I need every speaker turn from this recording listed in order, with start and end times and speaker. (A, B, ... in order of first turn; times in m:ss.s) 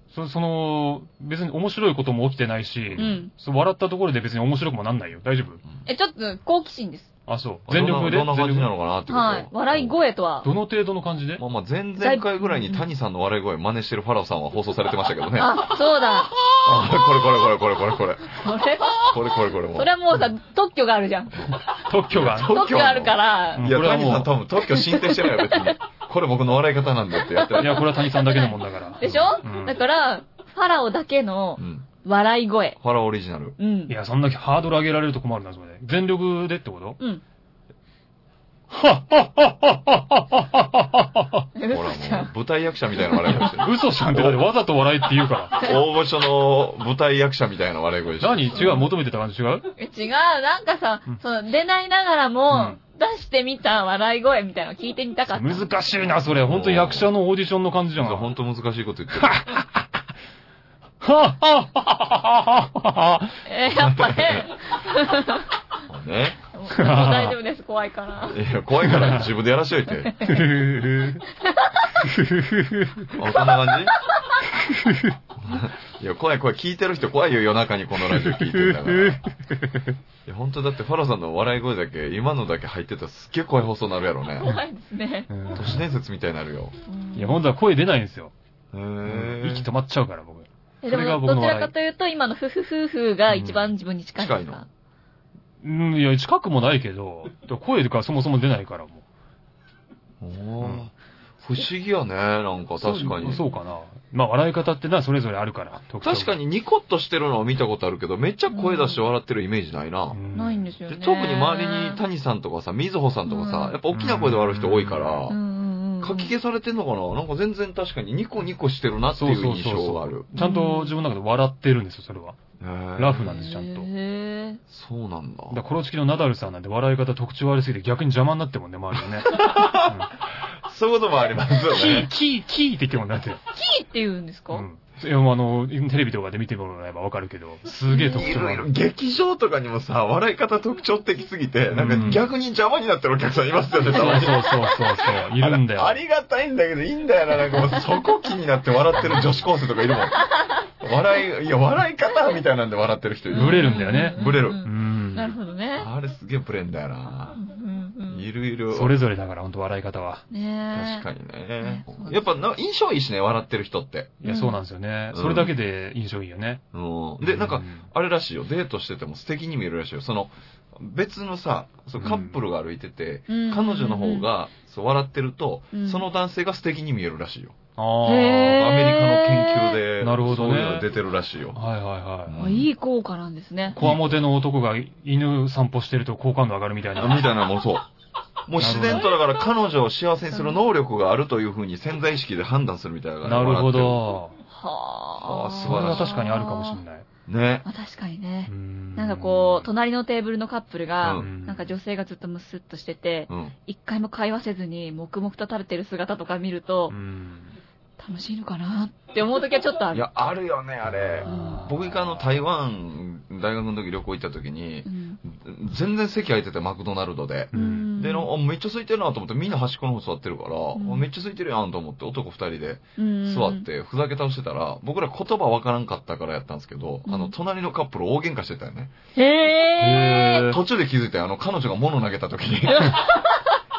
0:00.1-0:05.6 A
0:02.9-0:03.2 B
0:03.0-0:03.3 C
0:05.8-0:07.1 C
0:07.3-0:08.7 A
0:07.7-0:10.0 B
0:09.1-0:10.5 C
0:10.4-0:11.4 A
0:11.4-0:15.6 B
0:12.0-0:12.9 C
0:15.4-0:16.5 C
0:16.5-0:18.4 B
0:18.2-0:19.2 C
0:18.9-0:19.9 B
0:19.7-0:21.7 C
0:21.8-0:22.5 A
0:22.1-0:27.9 B
0:22.3-0:23.7 C
0:23.6-0:24.4 A
0:24.6-0:25.7 C
0:27.2-0:32.8 C
0:27.5-0:29.8 A
0:31.6-0:31.8 B
0:32.8-0:33.6 B
0:33.6-0:33.9 C
0:33.9-0:37.0 A
0:38.7-0:41.5 A
0:41.6-0:42.3 C
0:41.7-0:44.4 B
0:43.3-0:45.7 A
0:45.5-0:48.8 B
0:48.2-0:49.7 A
0:49.8-0:55.7 C
0:52.5-0:52.8 A
0:55.3-0:58.3 A
0:56.4-0:57.1 B
0:58.0-0:59.4 B
0:59.1-0:59.8 A
1:01.0-1:03.4 A
1:03.4-1:05.5 C
1:03.7-1:04.5 B
1:05.9-1:06.4 B
1:06.5-1:08.4 C
1:06.7-1:07.4 A
1:08.2-1:10.2 B
1:08.8-1:09.3 A
1:10.0-1:10.4 C
1:10.2-1:11.2 A
1:11.4-1:11.9 C
1:12.0-1:13.1 A
1:13.1-1:14.0 B
1:13.2-1:14.4 C
1:14.6-1:15.2 A
1:15.4-1:19.2 B
1:18.0-1:20.0 A
1:20.2-1:24.5 B
1:24.4-1:25.3 C
1:25.3-1:25.8 A
1:25.5-1:26.7 B
1:26.9-1:27.4 C
1:27.1-1:28.3 A
1:28.7-1:29.7 B
1:29.0-1:31.7 A
1:30.8-1:34.6 C
1:33.3-1:33.7 A
1:34.2-1:34.6 B
1:35.6-1:39.0 A
1:40.2-1:43.4 B
1:42.8-1:46.4 A
1:46.0-1:50.2 B
1:48.5-1:49.1 C
1:50.1-1:50.7 A
1:50.3-1:52.0 C
1:50.9-1:55.4 B
1:53.2-1:53.8 C
1:53.9-1:55.2 A
1:55.3-1:56.3 C
1:56.0-2:00.3 B
1:59.1-2:02.4 A
2:00.4-2:00.9 C
2:02.6-2:03.4 B
2:03.0-2:03.9 A
2:03.2-2:04.6 C
2:04.7-2:05.6 B
2:05.5-2:10.1 A
2:09.2-2:12.1 B
2:11.7-2:13.4 A
2:13.5-2:14.6 C
2:14.5-2:18.7 A
2:17.9-2:18.3 C
2:18.1-2:34.6 B
2:21.7-2:22.2 A
2:23.9-2:26.0 A
2:33.3-2:35.9 C
2:33.3-2:35.3 A
2:35.8-2:37.4 B
2:37.3-2:38.3 C
2:38.1-2:39.0 B
2:38.7-2:40.2 A
2:40.3-2:41.0 C
2:40.7-2:44.2 B
2:41.6-2:42.2 C
2:44.2-2:46.6 A
2:44.2-2:44.6 C
2:45.1-2:45.5 B
2:46.7-2:57.5 B
2:47.2-2:47.9 A
2:52.0-2:52.3 A
2:53.3-2:54.3 C
2:55.7-2:56.0 C
2:57.8-2:58.7 A
2:58.0-2:59.8 C
2:58.4-3:01.6 B
3:00.0-3:00.9 A
3:01.5-3:02.4 A
3:02.3-3:02.7 B
3:02.4-3:03.8 C
3:03.7-3:04.2 B
3:03.7-3:07.2 A
3:07.0-3:07.9 B
3:08.5-3:14.0 B
3:08.6-3:09.0 A
3:13.2-3:14.3 A
3:14.5-3:16.8 C
3:15.2-3:16.1 B
3:15.6-3:17.0 A
3:17.3-3:17.6 B
3:17.6-3:26.9 C
3:18.5-3:19.7 A
3:21.0-3:21.3 B
3:21.2-3:21.7 A
3:23.3-3:23.5 B
3:26.9-3:27.6 A
3:28.0-3:30.0 C
3:29.9-3:48.9 B
3:30.8-3:32.3 A
3:31.2-3:31.6 C
3:34.8-3:35.2 C
3:37.5-3:37.9 A
3:37.5-3:38.3 C
3:40.7-3:41.1 C
3:43.0-3:43.6 C
3:47.1-3:47.3 C
3:49.2-3:50.6 C
3:49.8-3:53.1 B
3:49.8-3:50.3 A
3:52.7-3:53.4 C